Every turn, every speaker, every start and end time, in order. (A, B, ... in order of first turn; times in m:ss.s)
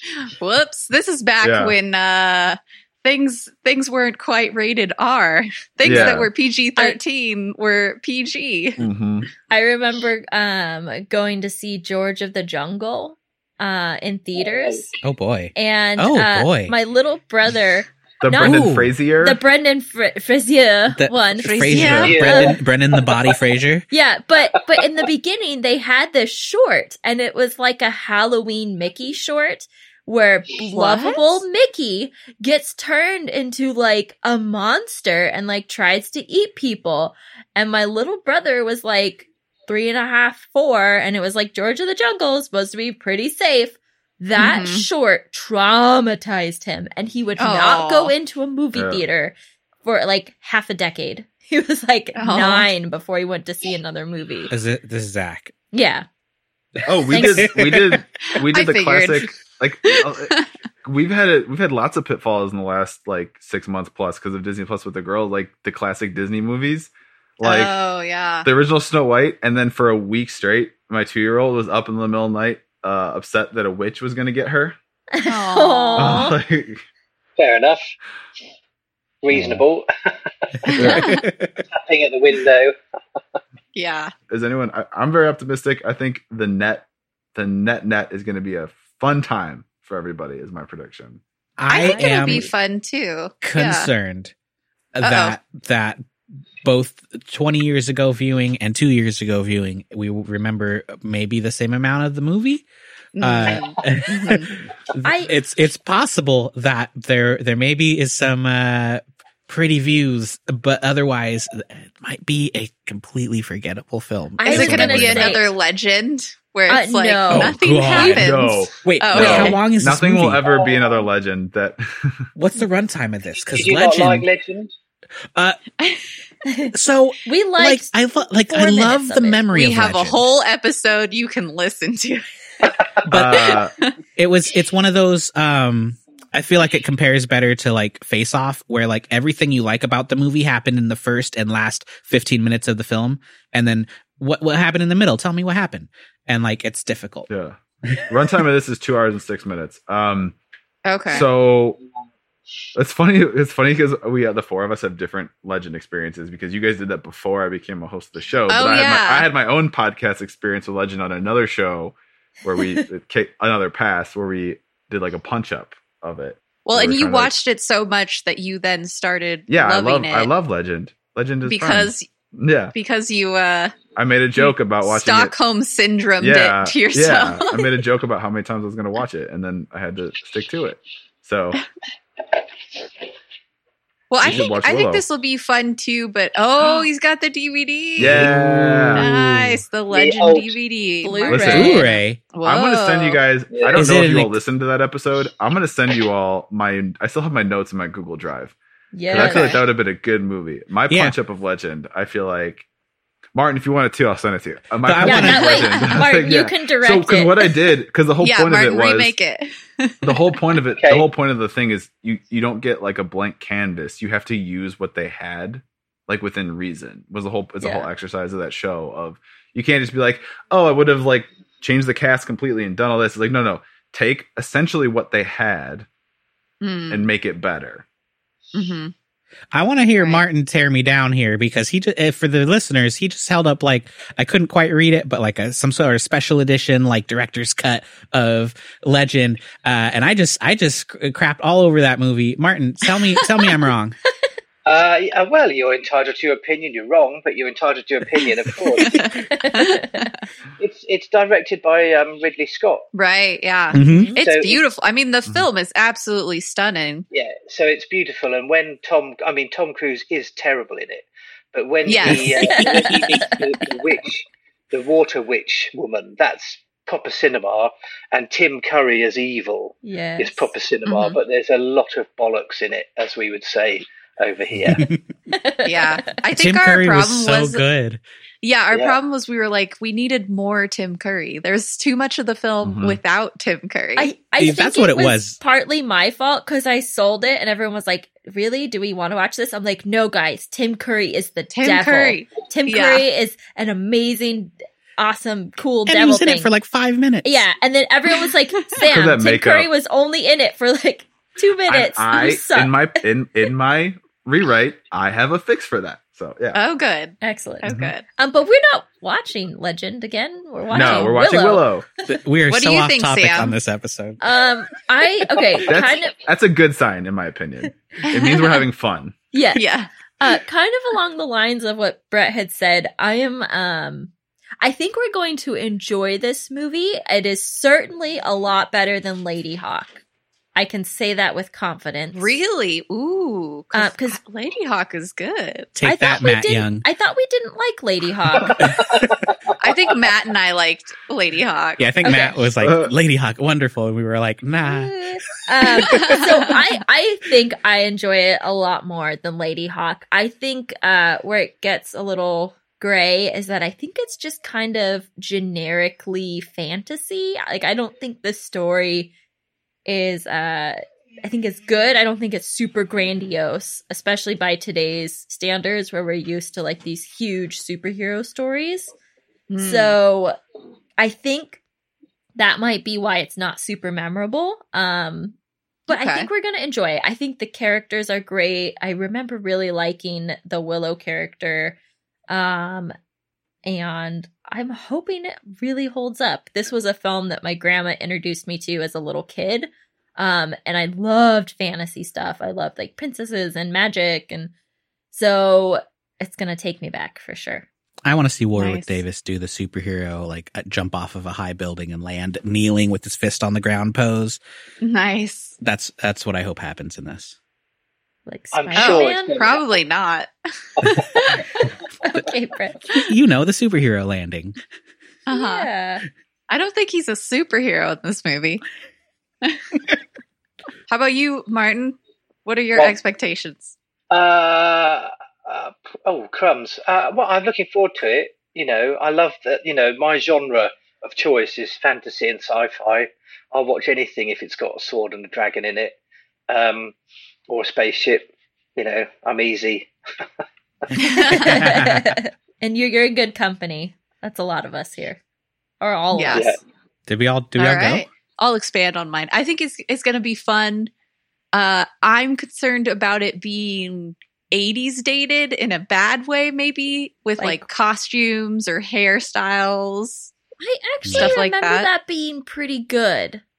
0:00.2-0:08.8 A
0:01.4-0:01.7 B
0:05.8-0:06.3 B
0:08.8-0:09.3 B
0:09.5-0:14.9 C
0:14.4-0:14.9 D
0:15.0-0:16.7 E
0:15.5-0:22.6 C
0:18.2-0:19.4 B
0:18.4-0:18.9 E
0:20.9-0:23.8 E
0:21.4-0:22.3 A
0:21.9-0:22.5 D
0:23.9-0:54.5 C
0:30.7-0:31.4 A
0:44.4-0:44.8 A
0:47.4-0:48.1 A
0:48.7-0:49.0 B
0:52.2-0:52.7 A
0:54.5-0:55.5 E
0:55.7-0:56.0 C
0:56.8-1:07.7 B
0:57.1-0:57.6 C
0:57.1-0:58.0 E
0:58.3-0:59.3 A
0:59.9-1:00.4 A
1:07.4-1:08.5 A
1:08.4-1:14.8 B
1:15.1-1:16.4 C
1:15.2-1:16.2 A
1:16.0-1:16.8 B
1:17.4-1:17.9 D
1:19.2-1:20.7 D
1:19.3-1:19.6 B
1:20.7-1:21.6 E
1:20.8-1:21.2 A
1:21.7-1:22.7 D
1:23.7-1:24.1 A
1:24.3-1:31.2 B
1:31.6-1:32.5 E
1:31.7-1:33.9 A
1:33.4-1:34.3 E
1:34.9-1:36.0 E
1:35.0-1:35.4 A
1:36.6-1:42.6 E
1:43.2-1:44.5 A
1:43.2-1:55.4 E
1:45.0-1:45.3 C
1:54.4-1:55.5 C
1:54.4-1:59.6 A
1:56.7-1:58.2 C
1:57.3-2:00.4 E
1:58.0-2:02.2 B
2:00.4-2:01.0 D
2:02.4-2:04.3 E
2:03.4-2:04.7 D
2:05.3-2:05.6 E
2:06.4-2:06.7 C
2:06.7-2:10.2 E
2:07.2-2:07.9 C
2:08.5-2:09.5 C
2:09.5-2:12.2 A
2:13.0-2:13.7 B
2:13.1-2:13.6 E
2:13.2-2:13.9 A
2:14.2-2:27.3 E
2:27.3-2:27.6 B
2:28.1-2:30.4 B
2:30.8-2:31.3 A
2:31.1-2:31.8 B
2:32.7-2:47.3 B
2:38.5-2:39.3 A
2:42.6-2:42.8 C
2:46.6-2:50.3 A
2:49.5-2:52.7 B
2:51.4-2:52.1 A
2:52.7-2:53.8 A
2:54.0-2:55.4 B
2:54.4-2:57.7 A
2:56.2-3:01.6 B
3:04.1-3:08.3 A
3:04.2-3:05.0 B
3:08.0-3:09.1 B
3:08.0-3:09.6 E
3:08.9-3:11.8 A
3:09.9-3:10.5 D
3:11.0-3:12.0 C
3:11.3-3:11.8 B
3:11.5-3:12.2 E
3:12.3-3:13.2 A
3:12.4-3:18.5 B
3:13.5-3:13.8 D
3:13.7-3:14.4 E
3:18.9-3:19.6 C
3:19.1-3:22.6 B
3:19.1-3:19.6 A
3:20.9-3:21.2 E
3:23.3-3:29.2 B
3:24.8-3:25.9 E
3:25.0-3:27.5 C
3:28.2-3:30.2 A
3:30.0-3:45.9 B
3:30.8-3:31.1 D
3:37.6-3:37.9 C
3:46.6-3:47.1 A
3:46.9-3:47.8 B
3:48.5-3:48.9 A
3:49.5-4:04.0 E
3:50.0-3:50.2 A
4:04.6-4:09.0 D
4:08.8-4:10.1 A
4:09.1-4:10.1 C
4:10.6-4:12.8 D
4:12.9-4:17.0 A
4:13.7-4:14.1 E
4:13.9-4:14.2 C
4:14.2-4:14.6 D
4:17.1-4:34.8 D
4:21.8-4:23.2 A
4:22.4-4:23.4 C
4:29.8-4:30.5 C
4:30.8-4:31.2 A
4:34.7-4:35.0 E
4:35.3-4:36.2 C
4:35.6-4:37.6 A
4:36.4-4:38.0 E
4:38.4-4:44.1 A
4:38.7-4:39.0 D
4:42.6-4:43.0 B
4:44.0-4:56.5 C
4:44.4-4:45.4 E
4:51.5-4:53.0 A
4:55.8-4:57.4 E
4:57.2-5:02.9 C
4:58.2-4:58.8 A
4:58.9-4:59.7 B
5:01.7-5:06.6 B
5:06.5-5:08.0 A
5:07.2-5:11.7 C
5:07.6-5:07.9 B
5:10.7-5:11.8 B
5:12.1-5:14.2 E
5:12.5-5:13.5 A
5:14.2-5:16.1 C
5:15.6-5:19.1 B
5:18.0-5:18.5 A
5:19.3-5:19.6 C
5:19.5-5:20.4 A
5:20.2-5:30.0 C
5:30.5-5:32.3 C
5:32.1-5:35.7 A
5:33.7-5:34.2 C
5:35.8-5:36.8 E
5:35.8-5:38.8 C
5:39.6-5:42.1 A
5:41.8-5:44.9 E
5:42.0-5:42.4 C
5:42.6-5:42.9 B
5:44.6-5:59.1 C
5:45.8-5:46.7 A
5:59.8-6:08.9 C
6:09.5-6:10.0 A
6:09.6-6:10.4 C
6:11.0-6:11.6 C
6:12.3-6:15.3 C
6:15.9-6:16.3 A
6:15.9-6:21.8 C
6:22.3-6:22.9 C
6:23.6-6:34.5 C
6:35.1-6:37.6 C
6:38.0-6:44.4 E
6:38.6-6:39.0 A
6:44.8-6:45.5 A
6:45.6-6:47.4 E
6:48.3-6:49.4 C
6:48.5-6:49.7 D
6:48.8-6:51.4 A
6:52.0-6:53.0 C
6:52.9-6:54.6 E
6:55.3-6:55.7 A
6:55.3-6:56.0 C
6:56.5-6:58.6 A
7:00.9-7:03.7 A
7:04.1-7:16.0 D
7:16.5-7:16.9 D
7:17.5-7:19.9 D
7:21.0-7:21.6 A
7:21.1-7:25.2 C
7:21.3-7:22.1 E
7:25.8-7:26.6 C
7:26.1-7:26.4 A
7:26.3-7:26.6 D
7:27.1-7:28.1 E
7:27.6-7:30.9 A
7:31.5-7:40.3 A
7:37.4-7:37.6 C
7:40.6-7:43.4 C
7:41.0-7:41.4 E
7:41.1-7:41.9 A